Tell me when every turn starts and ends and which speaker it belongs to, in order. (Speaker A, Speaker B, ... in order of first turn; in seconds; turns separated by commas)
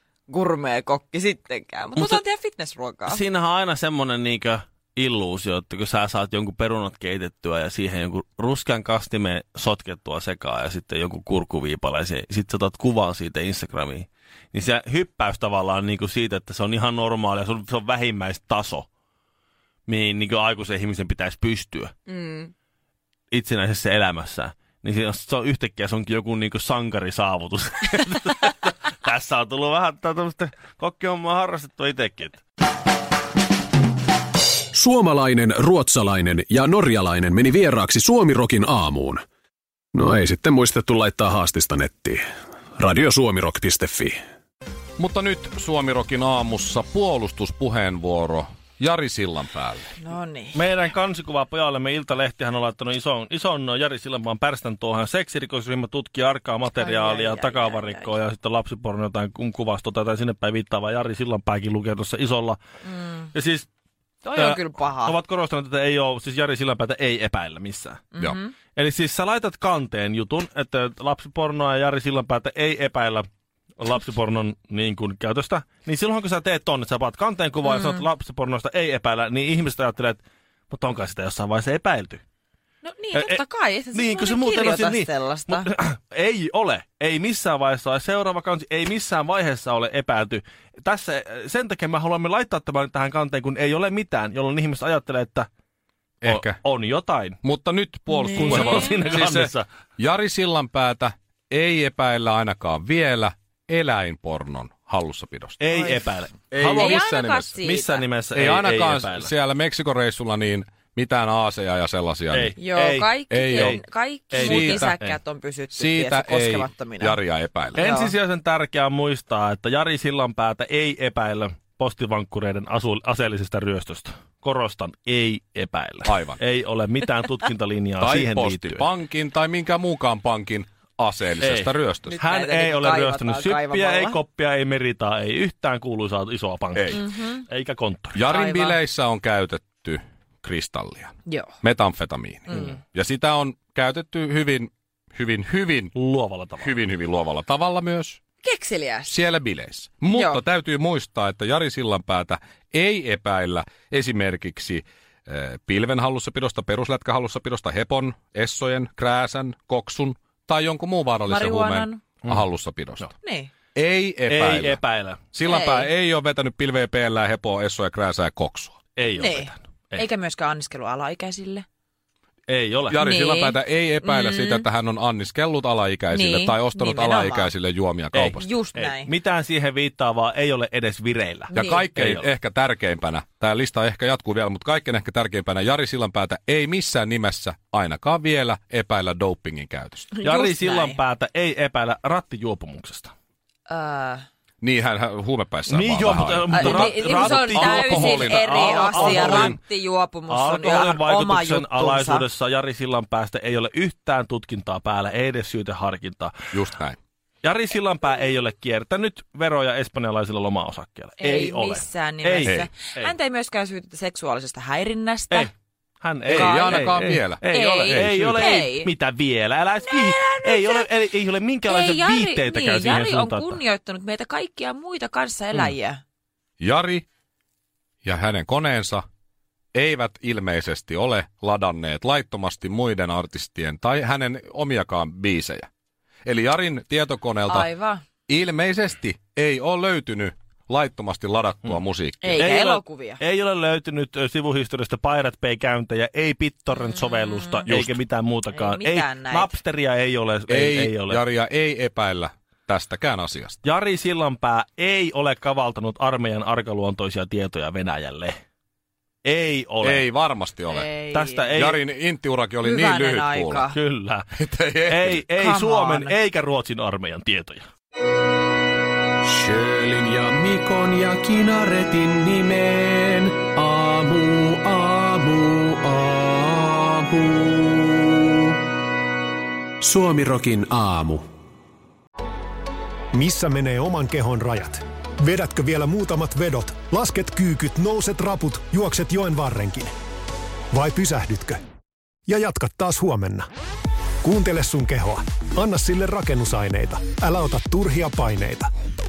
Speaker A: 0.3-3.2, Speaker B: 2.0-2.2, Speaker B: 3.1-18.9, Speaker B: 19.9-21.9, Speaker A: 22.1-22.5, Speaker B: 23.3-32.4, Speaker C: 34.7-39.2, Speaker C: 39.9-42.2, Speaker C: 42.8-44.2, Speaker D: 45.0-49.9, Speaker A: 50.0-50.6, Speaker B: 50.5-62.6, Speaker A: 56.8-58.2, Speaker A: 62.8-63.3, Speaker B: 63.3-63.7, Speaker A: 64.2-65.2, Speaker B: 64.4-68.1, Speaker A: 68.1-68.5, Speaker B: 68.8-73.3, Speaker B: 73.8-82.2, Speaker A: 77.7-78.0, Speaker A: 82.8-85.7, Speaker B: 83.1-83.4, Speaker B: 83.9-95.5, Speaker D: 96.2-96.6, Speaker B: 96.2-97.4, Speaker D: 97.4-105.6, Speaker A: 98.1-99.0, Speaker B: 98.3-99.7, Speaker B: 105.6-107.1, Speaker A: 105.7-106.1, Speaker D: 106.5-107.6, Speaker A: 106.7-108.0, Speaker B: 107.6-109.3, Speaker D: 108.3-112.6, Speaker B: 112.3-113.8, Speaker A: 112.6-117.2, Speaker D: 113.3-113.8, Speaker B: 114.3-115.2, Speaker D: 114.3-114.9, Speaker D: 115.7-117.8, Speaker B: 117.8-128.9, Speaker A: 117.8-118.1, Speaker D: 126.0-126.4, Speaker D: 128.0-132.2, Speaker B: 131.4-138.2, Speaker A: 132.1-134.2, Speaker D: 136.8-137.0, Speaker A: 136.9-137.4, Speaker D: 138.1-145.9, Speaker A: 138.3-138.8, Speaker A: 141.3-141.5, Speaker A: 142.5-142.8, Speaker B: 146.0-146.8, Speaker D: 146.6-148.2, Speaker A: 148.4-149.1, Speaker D: 149.1-163.1, Speaker A: 150.1-150.4, Speaker A: 161.3-162.0, Speaker A: 163.2-163.5, Speaker D: 163.8-164.8, Speaker B: 164.3-165.2, Speaker D: 165.3-168.8, Speaker A: 165.4-165.9, Speaker B: 169.0-170.0, Speaker A: 169.2-171.7, Speaker B: 172.5-173.0, Speaker D: 172.9-178.4, Speaker A: 173.0-174.7, Speaker A: 176.1-177.5, Speaker B: 178.1-182.3, Speaker A: 178.3-179.1, Speaker D: 181.5-190.1, Speaker A: 181.5-181.9, Speaker A: 190.1-191.0, Speaker B: 190.2-193.1, Speaker A: 193.7-194.3, Speaker D: 194.6-199.6, Speaker B: 195.7-199.6, Speaker A: 196.5-202.2, Speaker B: 200.3-206.5, Speaker D: 206.5-207.0, Speaker B: 207.4-213.1, Speaker A: 211.2-215.5, Speaker B: 215.3-223.6, Speaker D: 216.3-218.6, Speaker A: 216.3-218.9, Speaker A: 219.8-220.9, Speaker A: 221.7-226.0, Speaker D: 226.6-227.1, Speaker D: 228.0-229.1, Speaker D: 229.7-235.7, Speaker D: 236.2-237.7, Speaker A: 237.5-238.0, Speaker D: 238.3-242.4, Speaker A: 242.2-243.2, Speaker B: 242.4-251.2, Speaker A: 246.7-247.7, Speaker D: 247.7-248.0, Speaker A: 248.5-249.6, Speaker D: 250.5-253.6, Speaker B: 253.6-258.4, Speaker B: 259.2-260.1, Speaker D: 259.8-260.9, Speaker A: 260.7-261.5, Speaker B: 261.1-261.8, Speaker D: 261.5-263.7, Speaker A: 262.6-263.8, Speaker B: 263.7-264.3, Speaker D: 264.4-265.2, Speaker B: 264.9-267.7, Speaker A: 265.4-266.1, Speaker C: 269.2-278.6, Speaker C: 279.8-281.2, Speaker E: 283.1-289.9, Speaker E: 290.7-291.6, Speaker E: 292.3-293.5, Speaker E: 294.2-298.7